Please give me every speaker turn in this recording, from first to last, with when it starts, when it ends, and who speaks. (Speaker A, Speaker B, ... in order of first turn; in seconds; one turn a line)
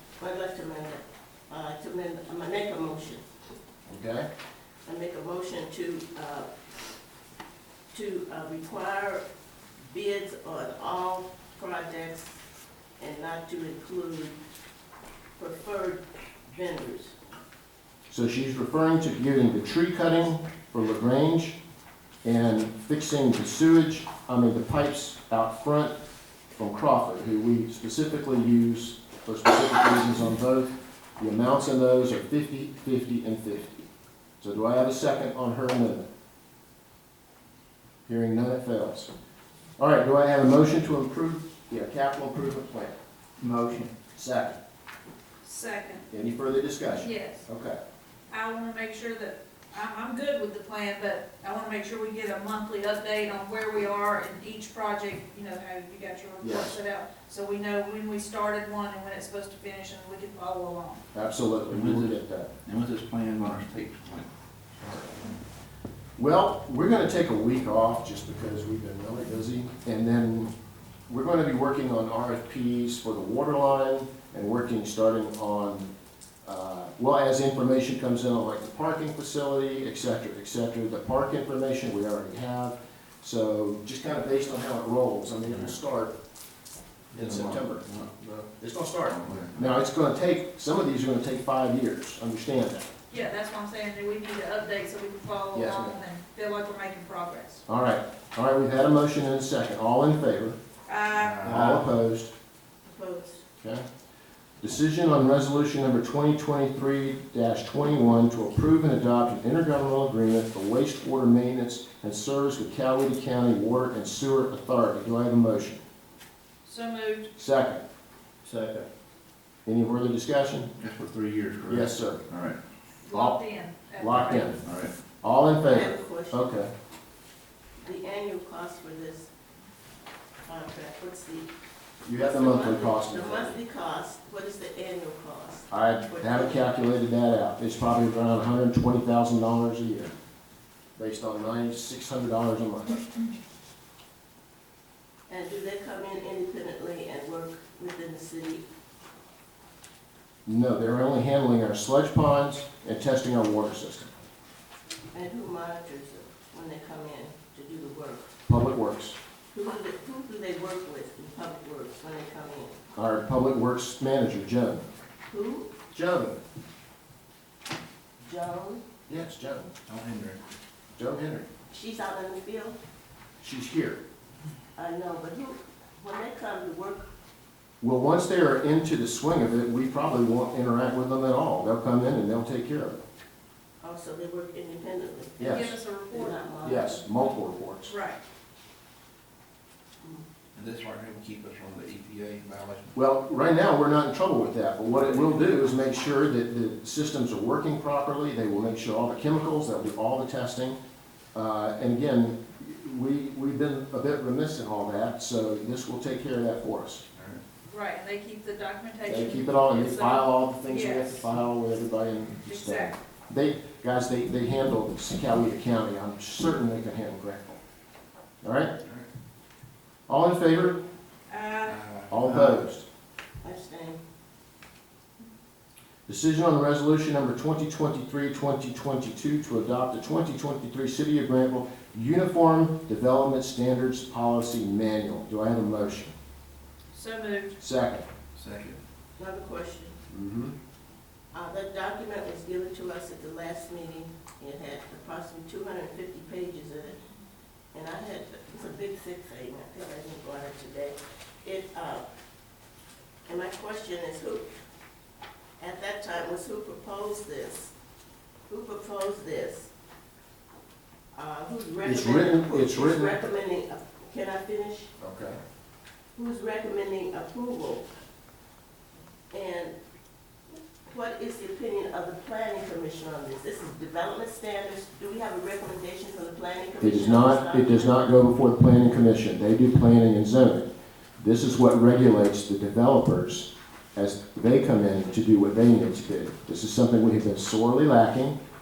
Speaker A: 0.2-3.2
Speaker B: 3.9-4.3
Speaker A: 4.9-6.5
Speaker A: 7.9-9.2
Speaker A: 9.9-12.4
Speaker A: 13.0-14.4
Speaker A: 15.4-17.1
Speaker B: 18.1-21.6
Speaker B: 22.2-25.9
Speaker B: 26.5-33.8
Speaker B: 34.4-36.1
Speaker B: 38.1-39.1
Speaker B: 39.8-43.0
Speaker C: 43.4-43.9
Speaker B: 44.1-44.6
Speaker D: 45.4-46.1
Speaker B: 46.1-47.8
Speaker D: 47.0-47.5
Speaker D: 48.3-61.0
Speaker B: 56.4-56.8
Speaker B: 61.1-62.5
Speaker C: 61.7-64.3
Speaker B: 66.2-70.5
Speaker B: 71.1-75.9
Speaker B: 76.4-86.2
Speaker C: 87.1-88.5
Speaker B: 87.1-87.9
Speaker B: 88.6-92.9
Speaker C: 89.1-89.8
Speaker D: 93.1-97.6
Speaker B: 95.5-96.0
Speaker B: 97.7-100.6
Speaker D: 100.9-101.5
Speaker C: 101.1-101.9
Speaker B: 101.5-102.3
Speaker A: 102.9-103.5
Speaker B: 104.6-115.8
Speaker D: 116.6-117.3
Speaker B: 117.4-117.8
Speaker C: 118.5-118.9
Speaker B: 119.7-120.7
Speaker C: 120.8-122.6
Speaker B: 121.7-122.2
Speaker D: 123.0-124.6
Speaker B: 123.1-123.4
Speaker B: 124.0-124.6
Speaker C: 124.6-124.9
Speaker B: 125.2-126.7
Speaker A: 125.6-126.5
Speaker A: 127.8-129.3
Speaker A: 130.4-131.5
Speaker B: 132.1-133.6
Speaker A: 132.1-136.7
Speaker B: 135.7-140.1
Speaker B: 141.0-143.1
Speaker A: 145.3-148.6
Speaker B: 150.5-154.1
Speaker A: 155.1-158.3
Speaker B: 158.5-159.2
Speaker A: 159.5-162.8
Speaker B: 163.0-164.8
Speaker A: 165.3-165.8
Speaker B: 165.9-166.4
Speaker A: 168.2-168.8
Speaker B: 169.1-169.7
Speaker C: 169.9-170.4
Speaker B: 170.9-171.5
Speaker A: 171.7-172.8
Speaker B: 173.4-174.0
Speaker A: 174.8-177.1
Speaker B: 177.8-183.0
Speaker A: 183.8-187.0
Speaker B: 185.4-185.7
Speaker D: 185.4-186.5
Speaker B: 186.6-187.9
Speaker D: 187.8-188.2
Speaker C: 190.5-193.0
Speaker B: 192.9-200.8
Speaker B: 201.3-207.1
Speaker C: 207.2-207.4
Speaker D: 207.7-211.3
Speaker B: 209.1-217.6
Speaker D: 212.5-213.0
Speaker B: 218.4-218.7
Speaker B: 220.1-220.8
Speaker D: 221.3-221.8
Speaker C: 221.7-222.6
Speaker B: 222.1-222.8
Speaker A: 223.4-224.0
Speaker B: 226.1-236.1
Speaker D: 236.9-237.6
Speaker B: 237.6-238.1
Speaker C: 238.3-238.8
Speaker A: 239.2-240.0
Speaker B: 240.1-240.6
Speaker A: 241.3-247.0
Speaker A: 247.7-252.1
Speaker A: 253.3-254.4
Speaker A: 255.6-257.7
Speaker A: 258.5-259.7
Speaker A: 261.1-264.9
Speaker B: 261.8-263.2
Speaker B: 265.0-265.4
Speaker A: 266.2-267.9
Speaker A: 269.3-269.8
Speaker A: 270.9-278.0
Speaker B: 276.8-280.7
Speaker B: 281.2-288.4